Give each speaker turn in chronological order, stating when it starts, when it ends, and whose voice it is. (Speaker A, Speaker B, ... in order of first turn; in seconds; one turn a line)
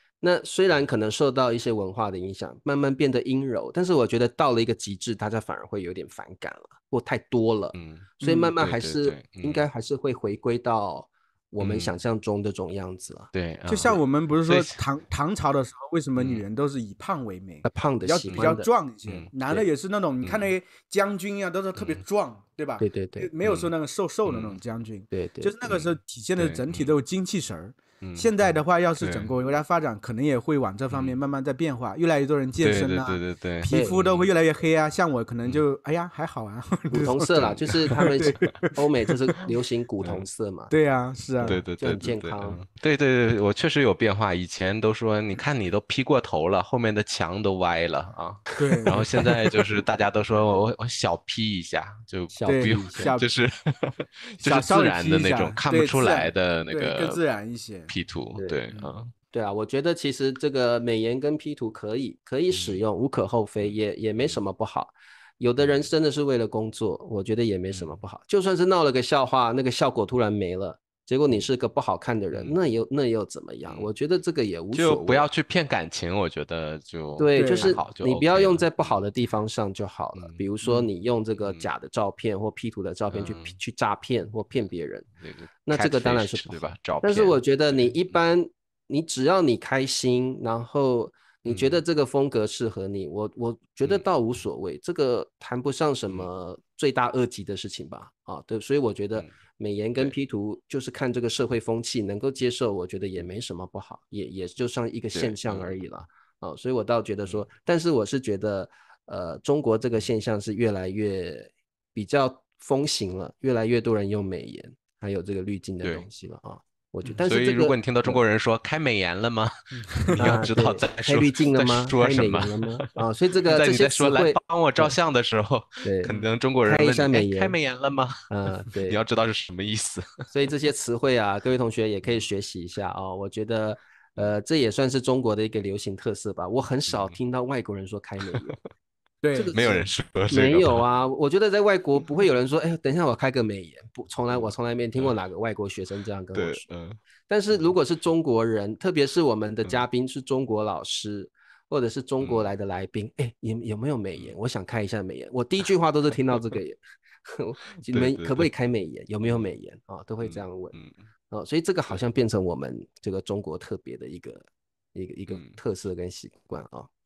Speaker A: 0.2-14.0
Speaker B: 7.7-9.6
Speaker C: 8.2-8.5
Speaker B: 11.6-12.0
Speaker B: 13.3-14.8
Speaker C: 13.7-38.8
Speaker B: 16.2-16.4
Speaker A: 17.6-18.7
Speaker B: 20.2-20.5
Speaker B: 21.8-22.0
Speaker A: 22.8-23.3
Speaker B: 23.4-23.7
Speaker B: 24.2-24.6
Speaker A: 25.1-25.5
Speaker B: 25.6-26.9
Speaker B: 28.0-29.3
Speaker B: 30.9-31.2
Speaker B: 32.6-34.3
Speaker A: 33.7-34.0
Speaker A: 36.9-40.7
Speaker B: 37.0-38.5
Speaker C: 40.7-41.6
Speaker A: 41.4-42.6
Speaker B: 41.4-57.2
Speaker C: 48.6-49.3
Speaker A: 52.3-53.1
Speaker C: 52.5-53.3
Speaker C: 54.4-57.9
Speaker B: 57.9-59.1
Speaker A: 58.4-58.6
Speaker A: 59.3-75.3
Speaker B: 62.5-62.8
Speaker B: 63.6-64.4
Speaker B: 65.6-65.8
Speaker B: 67.7-68.0
Speaker B: 74.7-79.0
Speaker A: 77.2-85.1
Speaker C: 77.3-77.8
Speaker B: 80.1-80.4
Speaker B: 81.4-81.7
Speaker B: 83.1-83.6
Speaker B: 85.2-88.1
Speaker A: 85.7-118.2
Speaker B: 91.5-91.8
Speaker B: 105.1-105.8
Speaker B: 117.2-123.0
Speaker C: 119.8-120.2
Speaker A: 120.2-124.9
Speaker B: 123.5-128.3
Speaker A: 125.8-126.1
Speaker A: 126.6-127.5
Speaker A: 128.3-129.0
Speaker B: 128.8-130.3
Speaker A: 130.3-138.6
Speaker B: 136.9-137.1
Speaker B: 138.3-138.6
Speaker C: 139.2-139.8
Speaker A: 139.3-146.7
Speaker B: 139.5-140.8
Speaker B: 144.3-145.1
Speaker B: 146.3-147.0
Speaker A: 147.3-160.7
Speaker B: 152.2-152.5
Speaker B: 157.8-158.5
Speaker B: 160.2-161.1
Speaker A: 161.3-166.9
Speaker B: 165.3-165.6